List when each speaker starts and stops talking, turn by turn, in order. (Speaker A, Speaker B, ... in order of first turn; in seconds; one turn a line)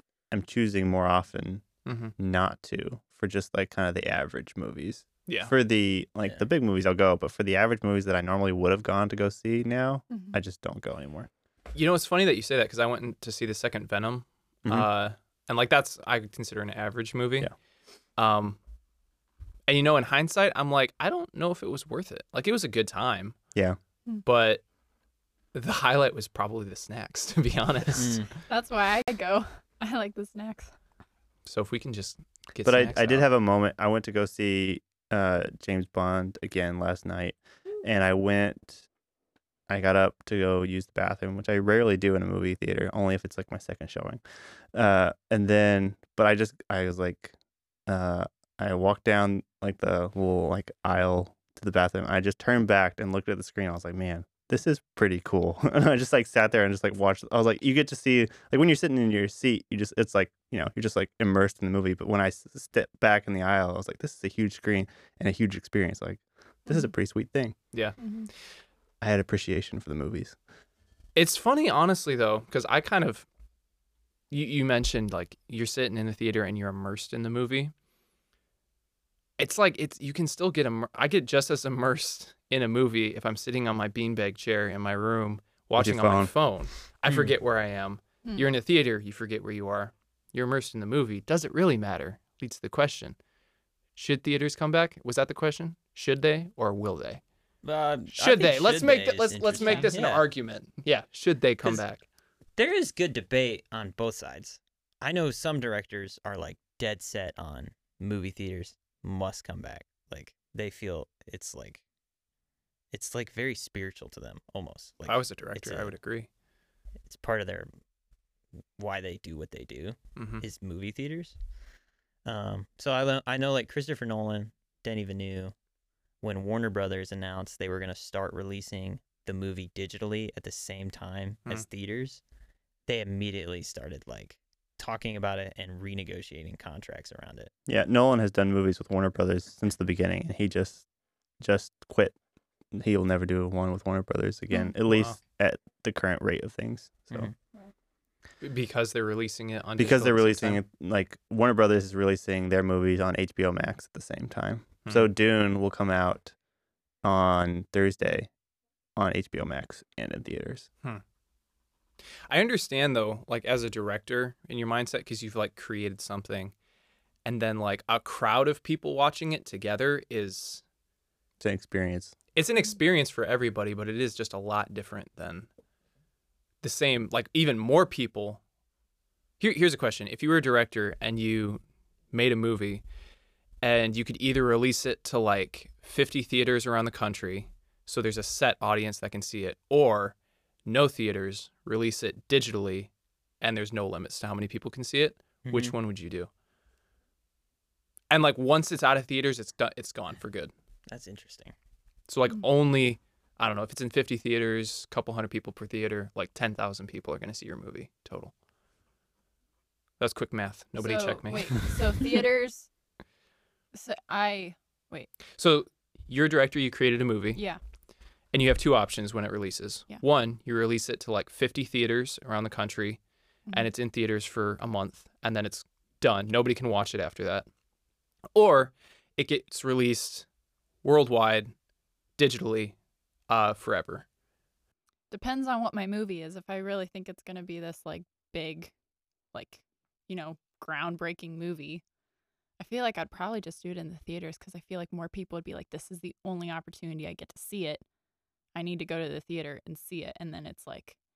Speaker A: 0.3-1.7
Speaker B: 1.9-2.1
Speaker A: 2.2-11.3
Speaker B: 5.3-5.5
Speaker B: 11.7-17.5
Speaker B: 18.2-18.6
Speaker B: 19.7-23.4
Speaker B: 24.2-24.6
Speaker B: 25.5-28.3
Speaker C: 28.0-28.3
Speaker D: 28.5-30.7
Speaker B: 31.5-33.3
Speaker A: 32.6-38.9
Speaker A: 39.7-44.2
Speaker A: 44.7-47.3
Speaker A: 47.9-67.6
Speaker D: 68.0-68.3
Speaker A: 69.0-70.4
Speaker B: 71.2-73.3
Speaker B: 74.3-77.7
Speaker B: 79.4-93.2
Speaker A: 85.8-86.3
Speaker B: 94.0-97.2
Speaker C: 97.6-100.3
Speaker B: 98.2-102.0
Speaker D: 99.6-99.9
Speaker C: 102.6-111.8
Speaker C: 112.9-116.0
Speaker B: 115.0-116.3
Speaker C: 117.0-117.7
Speaker C: 118.8-121.4
Speaker B: 120.2-120.4
Speaker C: 122.2-125.5
Speaker C: 126.2-132.2
Speaker C: 132.9-137.5
Speaker A: 137.7-140.9
Speaker A: 141.4-142.2
Speaker A: 142.7-147.3
Speaker B: 144.9-145.2
Speaker B: 148.4-150.6
Speaker A: 149.8-156.3
Speaker A: 157.0-158.3
Speaker A: 159.0-160.7
Speaker B: 162.3-166.5
Speaker B: 167.2-170.6
Speaker A: 171.4-172.1
Speaker B: 172.3-175.5
Speaker B: 176.6-178.4
Speaker B: 179.4-182.8
Speaker B: 183.6-196.3
Speaker C: 195.5-195.7
Speaker B: 198.1-200.5
Speaker C: 200.9-201.5
Speaker B: 202.1-208.3
Speaker B: 210.0-211.6
Speaker D: 210.8-212.7
Speaker D: 213.7-215.1
Speaker B: 215.4-217.4
Speaker D: 217.3-217.6
Speaker B: 218.3-223.0
Speaker B: 223.5-227.5
Speaker B: 228.3-230.3
Speaker B: 230.8-231.5
Speaker B: 232.2-232.8
Speaker B: 233.3-234.1
Speaker D: 235.1-238.7
Speaker D: 239.3-241.8
Speaker D: 242.6-247.8
Speaker D: 248.5-251.0